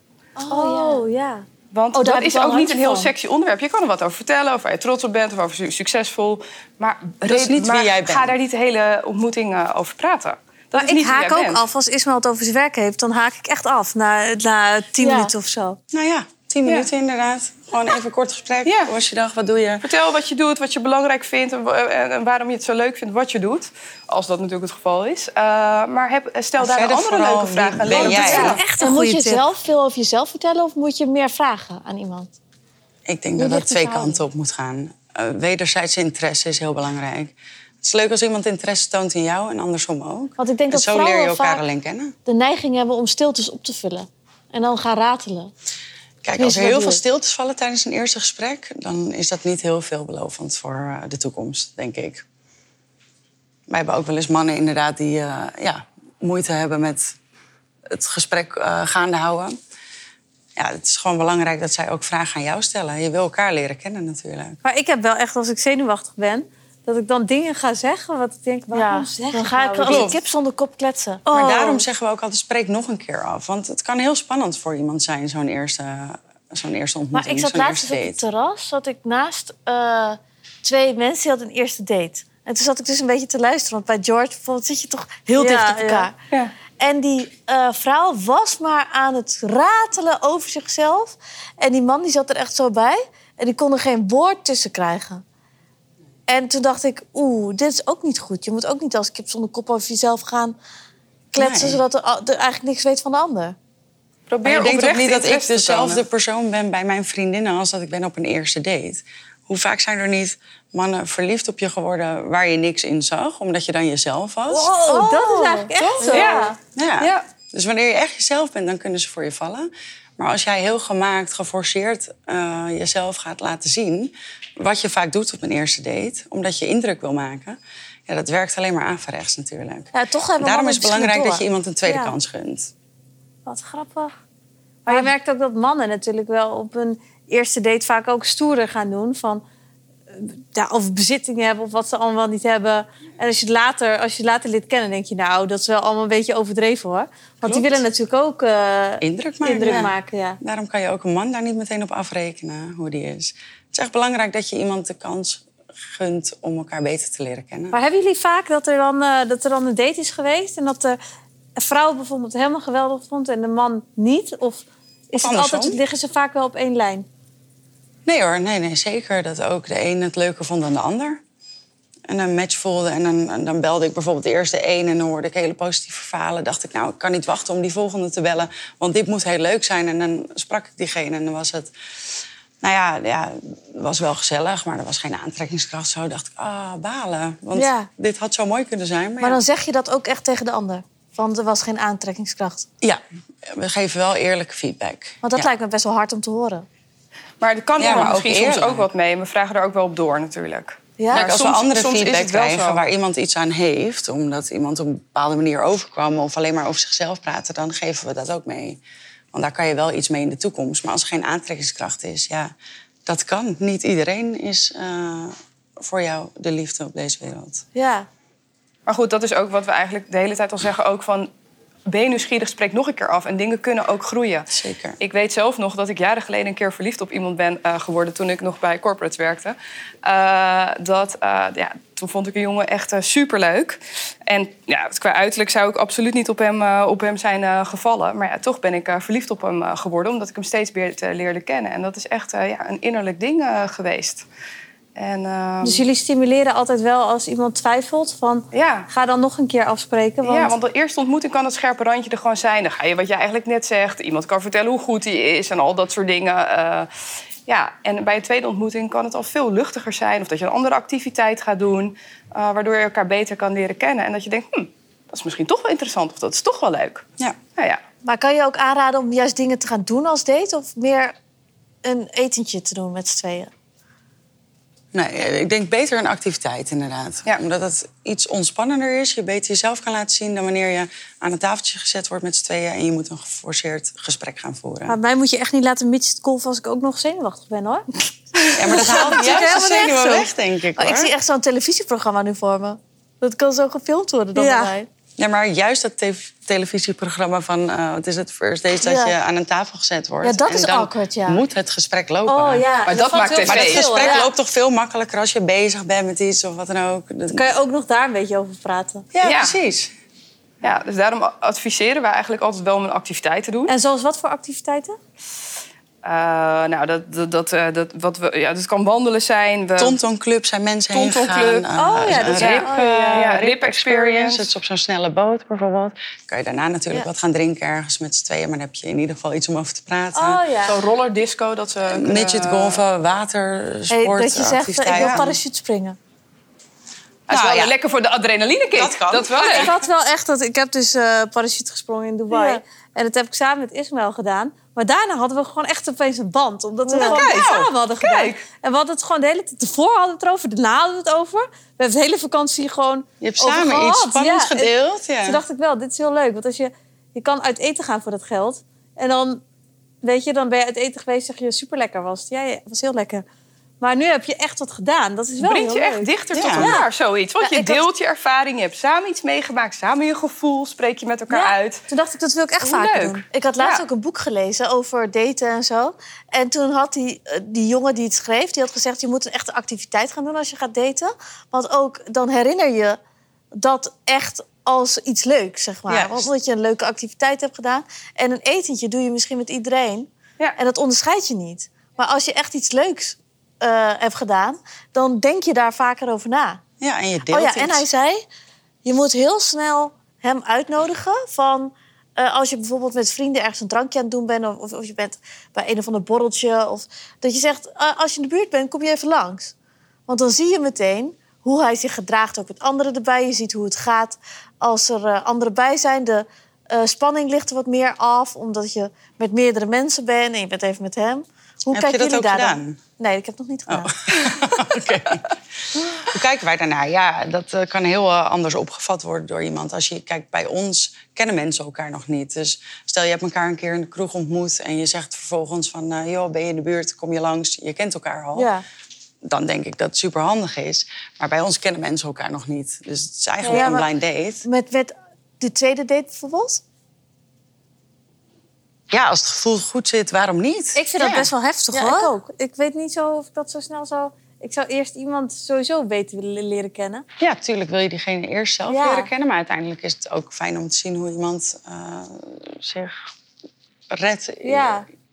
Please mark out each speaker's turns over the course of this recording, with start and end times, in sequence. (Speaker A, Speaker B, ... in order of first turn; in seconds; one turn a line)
Speaker A: 0.4-1.1
Speaker B: 0.5-1.5
Speaker C: 1.7-11.7
Speaker B: 2.0-3.1
Speaker A: 2.0-3.0
Speaker D: 7.3-8.3
Speaker B: 10.8-15.8
Speaker A: 15.0-15.3
Speaker D: 15.9-19.9
Speaker C: 18.6-18.9
Speaker C: 19.8-28.6
Speaker D: 26.6-28.6
Speaker B: 27.9-29.4
Speaker A: 28.0-32.3
Speaker D: 33.1-42.1
Speaker A: 33.4-34.2
Speaker A: 40.4-41.6
Speaker A: 42.3-45.5
Speaker D: 46.2-52.2
Speaker A: 46.4-47.0
Speaker D: 53.7-57.2
Speaker D: 57.9-59.6
Speaker D: 60.6-64.6
Speaker B: 64.6-70.1
Speaker A: 68.7-71.8
Speaker D: 69.9-70.2
Speaker D: 71.3-78.2
Speaker A: 77.1-86.2
Speaker B: 85.4-86.1
Speaker A: 86.8-95.2
Speaker A: 96.3-100.6
Speaker A: 101.3-103.6
Speaker D: 101.4-101.8
Speaker C: 104.3-106.0
Speaker D: 104.5-114.7
Speaker B: 114.5-116.6
Speaker A: 114.8-116.5
Speaker C: 115.8-117.2
Speaker D: 116.7-132.7
Speaker A: 129.9-131.4
Speaker B: 131.8-132.1
Speaker B: 133.5-134.2
Speaker B: 134.9-139.4
Speaker B: 140.1-150.4
Speaker D: 147.4-147.8
Speaker D: 149.0-157.8
Speaker A: 149.6-149.9
Speaker B: 157.7-161.0
Speaker B: 161.6-167.1
Speaker D: 165.2-165.8
Speaker D: 168.1-171.2
Speaker D: 172.1-181.7
Speaker D: 182.6-189.4
Speaker A: 187.6-187.9
Speaker A: 189.2-192.7
Speaker D: 192.8-195.5
Speaker A: 195.2-196.7
Speaker C: 197.4-202.8
Speaker D: 197.8-198.9
Speaker A: 201.0-201.3
Speaker D: 201.1-208.8
Speaker D: 209.3-212.5
Speaker D: 213.1-217.7
Speaker A: 217.8-218.1
Speaker C: 218.9-221.3
Speaker C: 221.9-224.5
Speaker D: 224.5-225.0
Speaker C: 225.0-244.3
Speaker C: 245.0-245.9
Speaker B: 245.6-250.5
Speaker C: 248.5-248.9
Speaker C: 250.2-256.9
Speaker C: 257.5-267.1
Speaker A: 268.0-271.1
Speaker A: 271.8-273.5
Speaker D: 274.9-285.0
Speaker B: 284.9-290.3
Speaker D: 288.5-291.1
Speaker A: 290.8-294.9
Speaker B: 294.4-294.7
Speaker D: 295.2-302.7
Speaker A: 298.8-299.1
Speaker A: 300.2-301.4
Speaker B: 302.3-304.3
Speaker C: 302.9-304.0
Speaker D: 303.4-307.5
Speaker B: 307.3-309.1
Speaker D: 309.1-309.9
Speaker C: 309.2-309.6
Speaker C: 310.6-313.8
Speaker B: 313.7-315.0
Speaker C: 316.0-320.0
Speaker D: 319.8-330.4
Speaker C: 320.9-321.7
Speaker B: 321.8-323.3
Speaker C: 322.3-324.5
Speaker B: 330.1-330.8
Speaker C: 330.6-332.8
Speaker D: 331.9-335.4
Speaker A: 333.9-336.0
Speaker C: 334.9-335.2
Speaker C: 337.3-339.7
Speaker D: 337.3-337.8
Speaker D: 338.7-339.9
Speaker B: 339.4-354.7
Speaker C: 342.3-342.6
Speaker C: 346.9-348.4
Speaker D: 347.0-347.7
Speaker D: 353.2-355.4
Speaker B: 355.2-359.4
Speaker B: 360.0-363.2
Speaker B: 363.8-366.9
Speaker C: 365.4-371.8
Speaker D: 366.3-366.8
Speaker A: 367.4-367.8
Speaker B: 371.3-373.2
Speaker C: 372.6-373.8
Speaker A: 373.3-383.0
Speaker A: 383.5-396.6
Speaker D: 385.9-386.3
Speaker D: 396.8-397.9
Speaker A: 397.3-398.2
Speaker A: 398.8-409.5
Speaker A: 410.1-424.3
Speaker D: 421.7-422.8
Speaker D: 423.7-425.4
Speaker D: 425.9-438.5
Speaker A: 438.4-438.6
Speaker D: 439.2-444.4
Speaker A: 443.4-443.9
Speaker B: 443.5-443.8
Speaker A: 444.4-446.6
Speaker D: 448.9-451.3
Speaker B: 450.8-457.1
Speaker A: 451.7-452.2
Speaker D: 457.2-463.0
Speaker B: 458.7-459.1
Speaker D: 463.9-464.9
Speaker B: 464.4-464.9